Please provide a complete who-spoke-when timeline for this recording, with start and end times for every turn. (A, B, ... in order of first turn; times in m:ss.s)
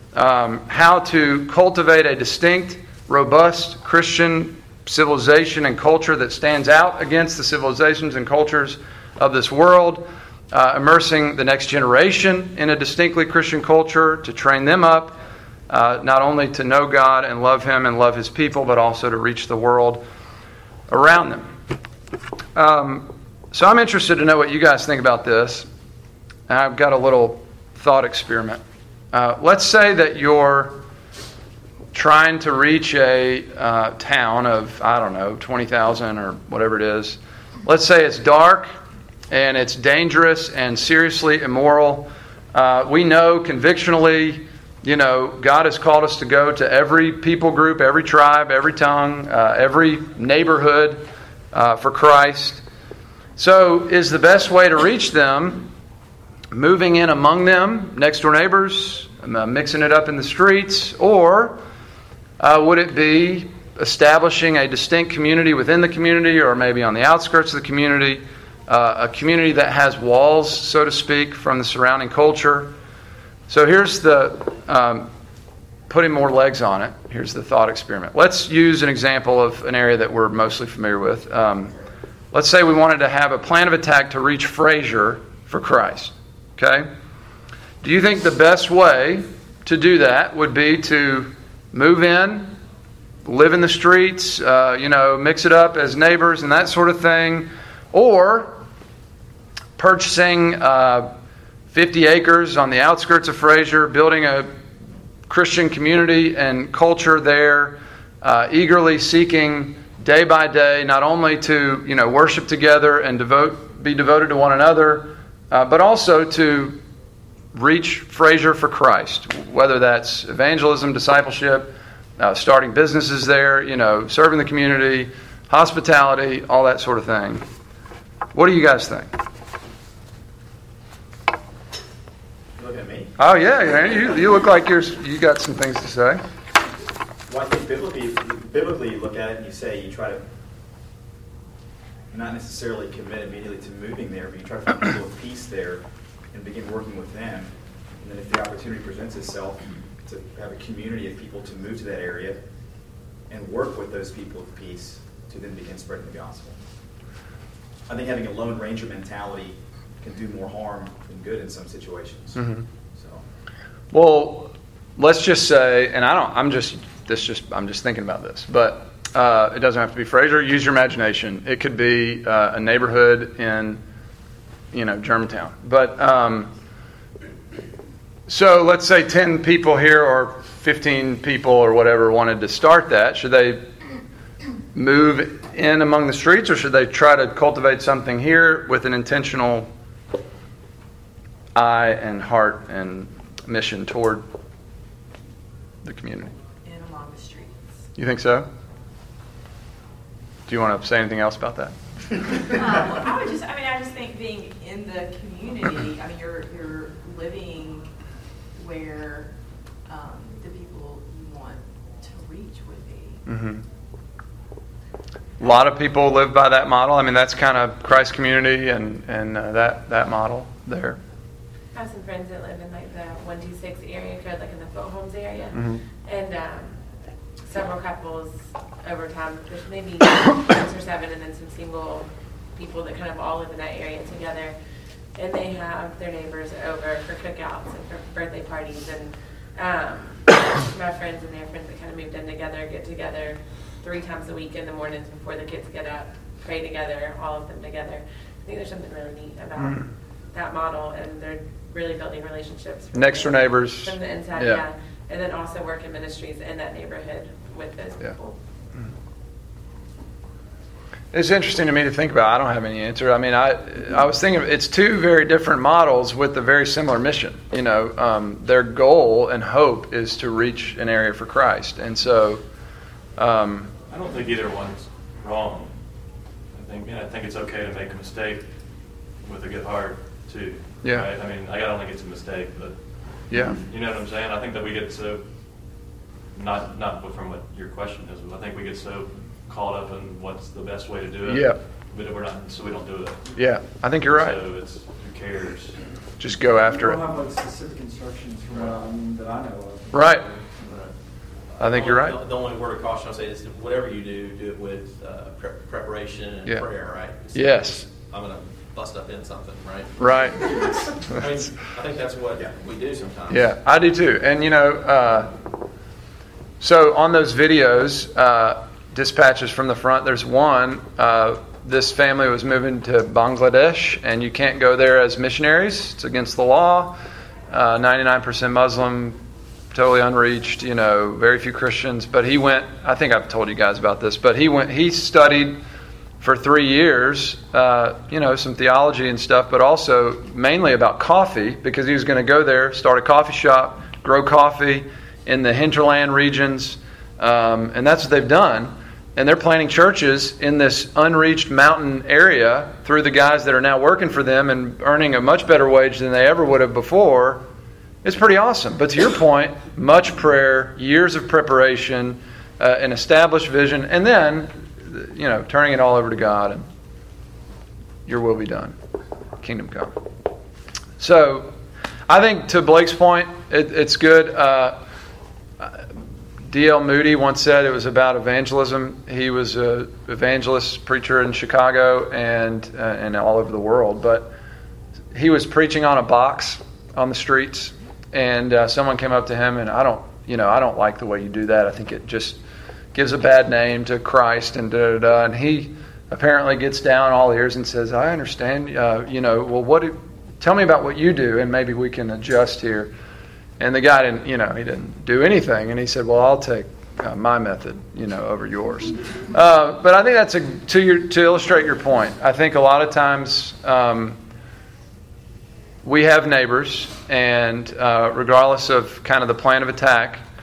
0:00.1-0:15.2 A
0:15.7-0:20.0 A
0:20.9-0:21.5 A
0:22.6-0:25.7 A
0:26.5-0:28.6 A
0:29.1-0:30.8 A
0:31.9-0:38.7 A
0:39.3-0:52.6 A
0:53.4-0:55.7 A
0:56.5-1:01.6 A
1:02.4-1:12.7 A
1:13.5-1:15.1 A
1:15.9-1:21.8 A
1:22.3-1:26.9 A
1:27.8-1:32.6 A
1:33.2-1:38.6 A
1:39.8-1:41.1 A
1:41.7-1:44.5 A
1:45.3-1:56.8 A
1:57.5-2:07.4 A
2:08.3-2:09.1 A
2:12.6-2:13.1 B
2:13.2-2:16.2 A
2:17.3-2:20.2 B
2:22.1-2:32.4 B
2:33.3-2:36.6 B
2:37.9-2:43.2 B
2:42.4-2:42.6 A
2:43.9-2:53.8 A
2:54.7-2:56.5 A
2:58.3-3:03.6 A
3:04.7-3:09.7 A
3:11.6-3:14.2 A
3:15.8-3:16.3 A
3:16.6-3:17.6 C
3:18.0-3:18.5 A
3:20.5-3:21.8 A
3:22.5-3:27.9 C
3:28.6-3:29.3 C
3:29.9-3:33.2 C
3:33.3-3:33.6 A
3:35.4-3:41.0 A
3:41.7-3:46.8 D
3:45.6-3:45.8 A
3:47.5-3:54.6 D
3:55.2-4:18.4 D
4:12.9-4:14.6 A
4:21.1-4:32.4 A
4:33.2-4:33.7 A
4:33.9-4:35.7 E
4:36.5-4:38.5 E
4:39.2-4:45.2 E
4:43.3-4:43.6 A
4:46.3-4:55.8 E
4:51.2-4:51.6 A
4:53.4-4:54.4 A
4:56.2-4:57.0 A
4:56.6-5:00.4 F
4:59.9-5:00.3 A
5:01.5-5:13.5 G
5:01.6-5:02.2 A
5:07.3-5:07.9 A
5:10.0-5:10.5 A
5:13.3-5:15.3 A
5:16.6-5:27.0 A
5:27.5-5:29.2 A
5:29.7-5:35.6 A
5:36.2-5:57.4 A
5:58.0-6:06.7 A
6:08.1-6:08.8 A
6:09.4-6:09.9 A
6:11.0-6:11.5 A
6:12.1-6:14.8 A
6:15.6-6:15.8 A
6:16.5-6:24.3 A
6:25.1-6:32.4 A
6:32.9-6:42.9 A
6:43.6-6:54.2 A
6:55.8-7:00.2 A